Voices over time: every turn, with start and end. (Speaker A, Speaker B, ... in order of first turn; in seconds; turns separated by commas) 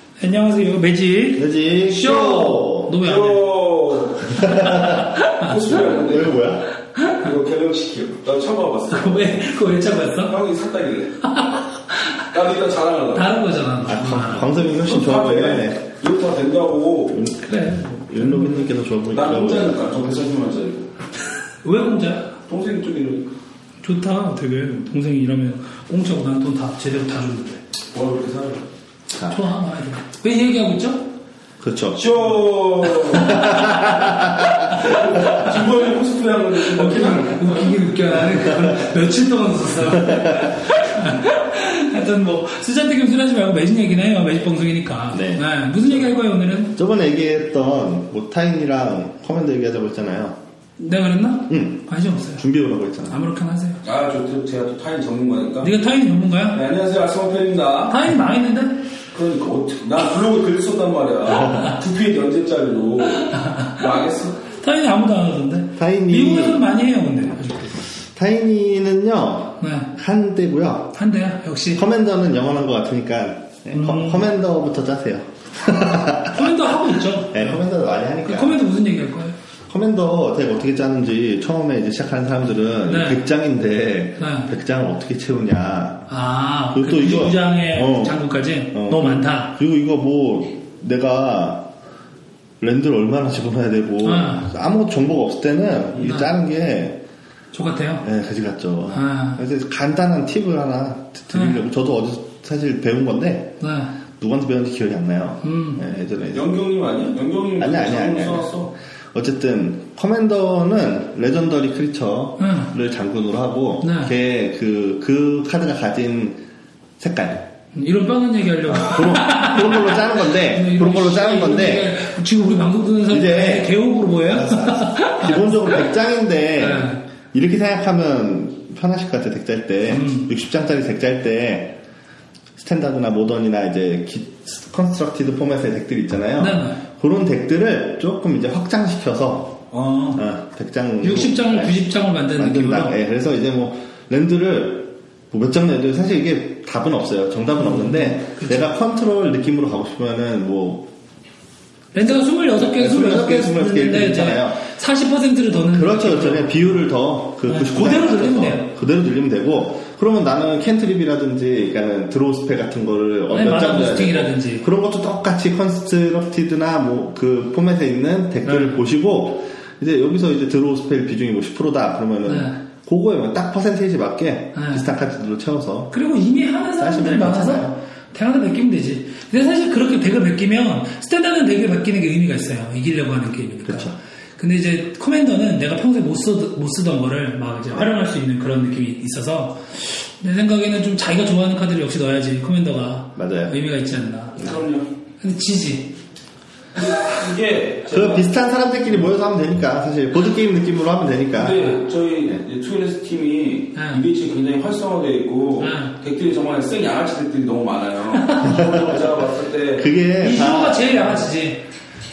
Speaker A: 0.2-3.5, Speaker B: 1.4-2.9, Speaker C: 3.0-4.6, Speaker B: 4.3-5.1, Speaker A: 4.6-5.8, Speaker C: 5.2-6.4, Speaker B: 5.7-6.7, Speaker A: 6.9-7.2, Speaker C: 7.1-9.4, Speaker A: 8.9-10.3, Speaker C: 10.3-11.2, Speaker A: 11.2-12.3, Speaker C: 12.3-13.4, Speaker A: 13.1-14.5, Speaker B: 13.8-15.8, Speaker C: 14.8-17.2, Speaker B: 17.1-20.1, Speaker A: 17.4-18.7, Speaker C: 19.1-20.9, Speaker A: 21.6-22.3, Speaker C: 22.5-23.3, Speaker A: 23.8-27.6, Speaker C: 27.9-28.6, Speaker A: 29.2-31.1, Speaker B: 31.6-32.0, Speaker C: 31.9-33.4, Speaker A: 33.1-35.4, Speaker B: 33.1-35.5, Speaker C: 34.7-38.3, Speaker A: 36.7-46.7, Speaker B: 39.8-40.7, Speaker B: 45.1-45.5, Speaker B: 46.7-50.4, Speaker A: 50.8-52.4, Speaker B: 51.5-53.2, Speaker A: 53.1-53.8, Speaker C: 53.8-55.7, Speaker A: 55.6-56.6, Speaker C: 56.5-58.0, Speaker A: 57.9-58.8, Speaker C: 59.1-64.3, Speaker A: 63.3-63.8, Speaker A: 64.6-67.8, Speaker B: 65.8-66.6, Speaker B: 68.1-70.9, Speaker A: 69.6-69.9, Speaker A: 70.9-71.8, Speaker B: 71.7-76.6, Speaker A: 73.7-74.3, Speaker A: 76.0-77.6, Speaker B: 77.3-78.6, Speaker A: 78.2-79.3, Speaker B: 79.7-86.1, Speaker A: 82.9-83.2, Speaker A: 84.2-84.5, Speaker A: 86.1-89.5, Speaker B: 86.7-88.2, Speaker B: 88.7-91.7, Speaker B: 92.6-97.0, Speaker A: 94.0-94.4, Speaker A: 96.0-96.3, Speaker A: 97.5-98.0, Speaker B: 98.0-103.5, Speaker A: 98.9-99.4, Speaker A: 101.3-101.6, Speaker A: 103.6-103.9, Speaker B: 104.2-106.5, Speaker A: 105.4-105.8, Speaker C: 106.3-108.7, Speaker B: 107.6-108.5, Speaker B: 109.1-116.4, Speaker A: 112.4-112.7, Speaker A: 113.8-114.1, Speaker B: 117.0-117.5, Speaker A: 117.7-125.8, Speaker B: 118.7-121.9, Speaker B: 123.1-131.8, Speaker A: 126.6-127.0, Speaker A: 129.9-130.3, Speaker B: 132.6-141.8, Speaker A: 136.4-136.8, Speaker A: 139.7-140.2, Speaker A: 141.0-142.9, Speaker B: 142.3-150.9, Speaker A: 147.6-148.7, Speaker A: 151.9-156.8, Speaker B: 152.5-154.6, Speaker B: 155.7-175.9, Speaker A: 157.5-158.7, Speaker A: 163.3-164.6, Speaker A: 168.4-168.8, Speaker A: 172.2-172.6, Speaker A: 174.5-174.8, Speaker A: 175.9-194.6, Speaker B: 176.8-177.7, Speaker B: 183.6-183.9, Speaker B: 193.2-193.6, Speaker C: 194.4-194.9, Speaker A: 195.2-195.9, Speaker C: 196.7-198.3, Speaker B: 197.9-201.7, Speaker C: 201.4-209.9, Speaker A: 203.7-204.0, Speaker A: 205.6-205.9, Speaker A: 208.1-208.6, Speaker B: 208.4-209.0, Speaker B: 209.8-211.2, Speaker A: 210.2-211.6